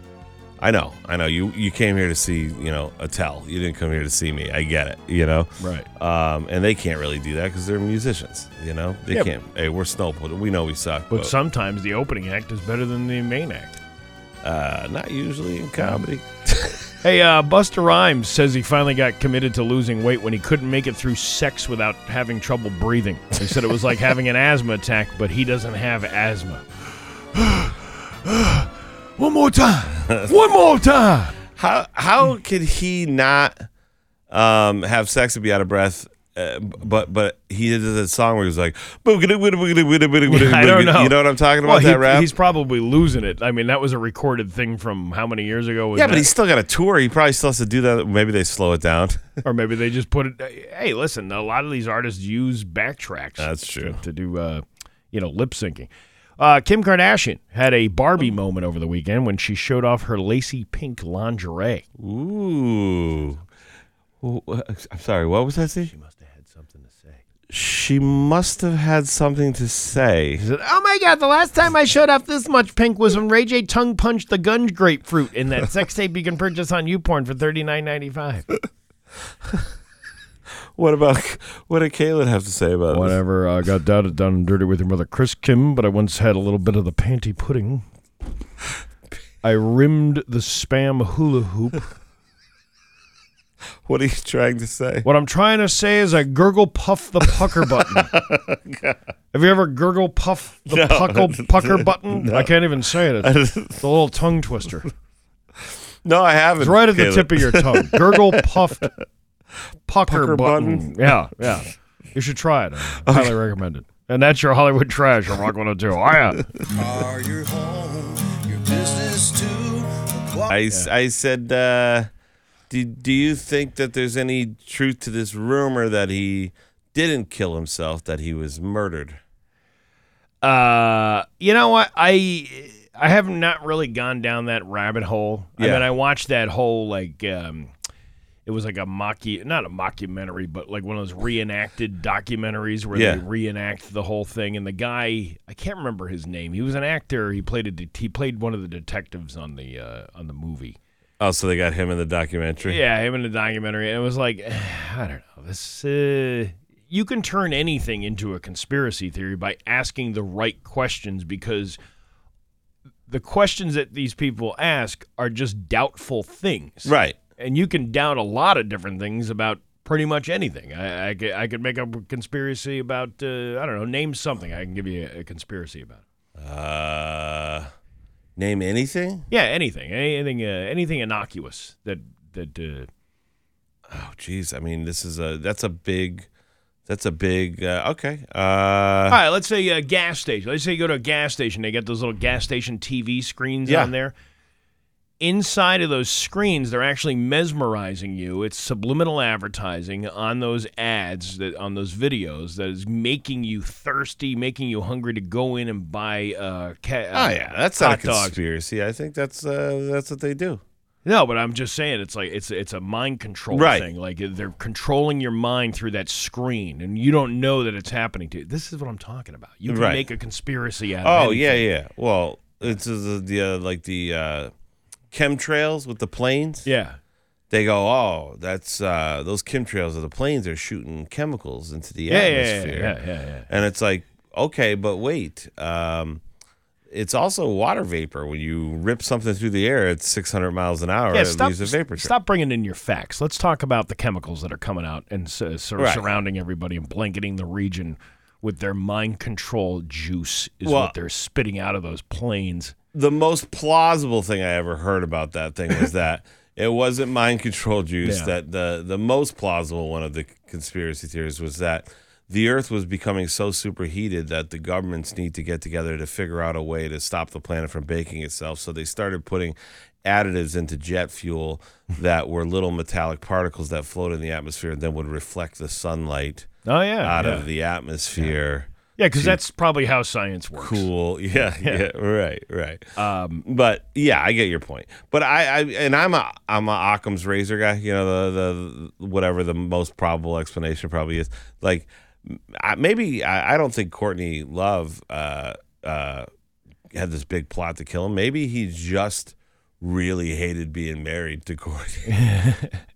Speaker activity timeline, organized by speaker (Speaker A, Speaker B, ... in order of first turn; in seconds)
Speaker A: 0.6-11.3, 14.4-16.8, 30.1-30.3, 31.6-33.7, 34.3-42.3, 45.9-49.3, 53.4-54.0, 62.0-63.4, 64.2-65.9, 67.5-70.4, 80.8-83.2, 93.8-95.1, 97.5-99.0, 100.7-102.5, 103.2-103.8, 106.0-108.9, 110.1-111.1, 113.0-113.4, 120.5-122.1, 122.7-129.2, 135.6-135.9, 142.9-143.2, 151.2-152.8, 166.8-167.2, 176.4-177.7, 178.3-179.3, 183.9-186.3, 186.9-189.2, 193.7-193.9, 207.1-210.6, 213.5-213.9, 219.7-220.0, 221.0-224.5, 225.1-226.7, 227.5-232.9, 233.5-236.2, 236.9-242.1, 245.8-246.1, 250.6-250.9, 252.9-276.5, 277.0-279.4, 280.6-282.9, 283.4-296.3, 296.9-302.1
Speaker B: 5.6-5.9, 11.1-13.8, 17.0-26.6, 27.3-31.4, 40.3-46.3, 49.4-61.8, 65.8-67.2, 70.4-78.5, 82.9-87.8, 89.4-91.9, 95.0-98.1, 99.3-104.9, 106.6-108.9, 109.9-116.4, 130.4-137.7, 138.4-150.8, 152.6-161.8, 163.1-176.0, 179.3-182.9, 189.1-194.1, 195.2-208.3, 211.0-221.6, 226.6-227.0, 232.1-233.5, 241.1-252.7, 258.0-258.3, 276.6-277.4, 279.0-281.8, 282.9-283.4, 302.1-302.8
Speaker C: 116.7-120.5